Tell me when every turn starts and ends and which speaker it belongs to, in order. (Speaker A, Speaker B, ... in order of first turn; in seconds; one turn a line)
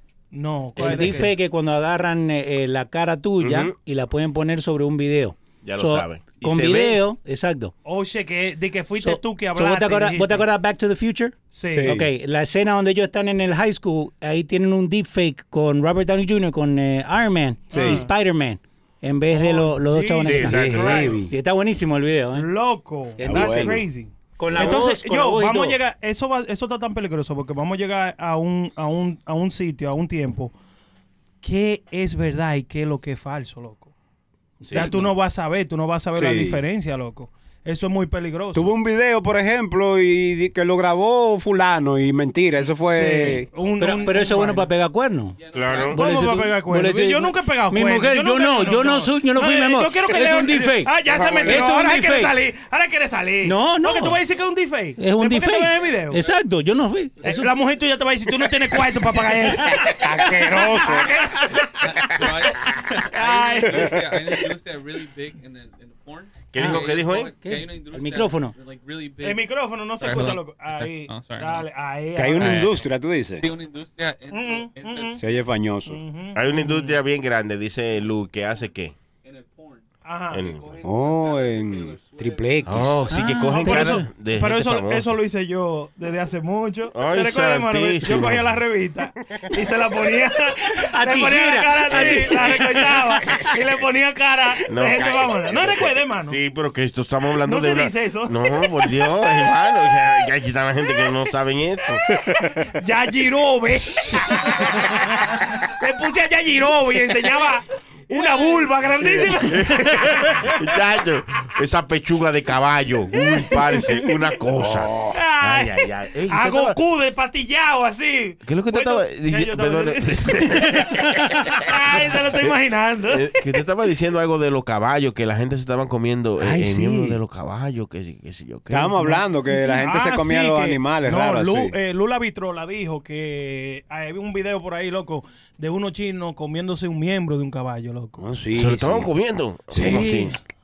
Speaker A: 0.3-1.3
Speaker B: 0.8-7.7
Speaker C: 3.4-3.7
Speaker C: 5.6-7.0
Speaker A: 7.8-10.4
Speaker B: 8.9-20.7
Speaker A: 11.5-12.0
Speaker D: 11.7-12.1
Speaker A: 17.7-18.1
Speaker D: 17.7-18.0
Speaker A: 19.3-21.2
Speaker C: 20.2-21.2
Speaker D: 20.3-21.3
Speaker B: 21.3-22.5
Speaker A: 22.3-30.5
Speaker B: 23.2-23.8
Speaker D: 23.2-23.8
Speaker B: 24.4-25.8
Speaker A: 31.4-33.9
Speaker B: 34.6-35.1
Speaker A: 34.7-38.7
Speaker D: 36.1-36.6
Speaker D: 38.5-43.5
Speaker A: 42.9-44.7
Speaker B: 43.1-45.4
Speaker E: 45.4-46.0
Speaker C: 45.5-46.0
Speaker B: 45.9-52.4
Speaker A: 45.9-56.2
Speaker D: 51.1-51.7
Speaker B: 53.4-54.2
Speaker B: 55.0-57.5
Speaker A: 57.2-62.2
Speaker D: 59.8-61.2
Speaker E: 61.8-71.7
Speaker A: 63.1-64.1
Speaker C: 66.5-67.3
Speaker B: 66.6-68.5
Speaker A: 69.2-72.8
Speaker D: 72.2-73.4
Speaker E: 72.4-72.9
Speaker E: 73.4-75.3
Speaker A: 74.3-75.2
Speaker D: 75.2-76.0
Speaker A: 75.8-77.0
Speaker C: 76.3-78.9
Speaker E: 79.2-83.0
Speaker A: 80.0-80.5
Speaker C: 80.3-80.7
Speaker D: 80.8-83.0
Speaker C: 82.6-85.1
Speaker B: 83.1-84.1
Speaker A: 83.5-96.4
Speaker C: 86.9-88.6
Speaker B: 90.8-93.0
Speaker C: 91.9-92.6
Speaker C: 94.7-102.0
Speaker A: 97.4-98.6
Speaker A: 102.4-110.6
Speaker C: 109.0-116.8
Speaker A: 113.4-114.0
Speaker D: 114.5-115.1
Speaker A: 115.1-123.3
Speaker C: 118.4-121.1
Speaker C: 122.0-122.5
Speaker C: 123.1-128.9
Speaker D: 126.4-127.2
Speaker D: 128.7-131.7
Speaker A: 129.0-138.2
Speaker D: 138.2-139.1
Speaker C: 138.5-140.3
Speaker D: 139.7-140.1
Speaker B: 139.8-140.2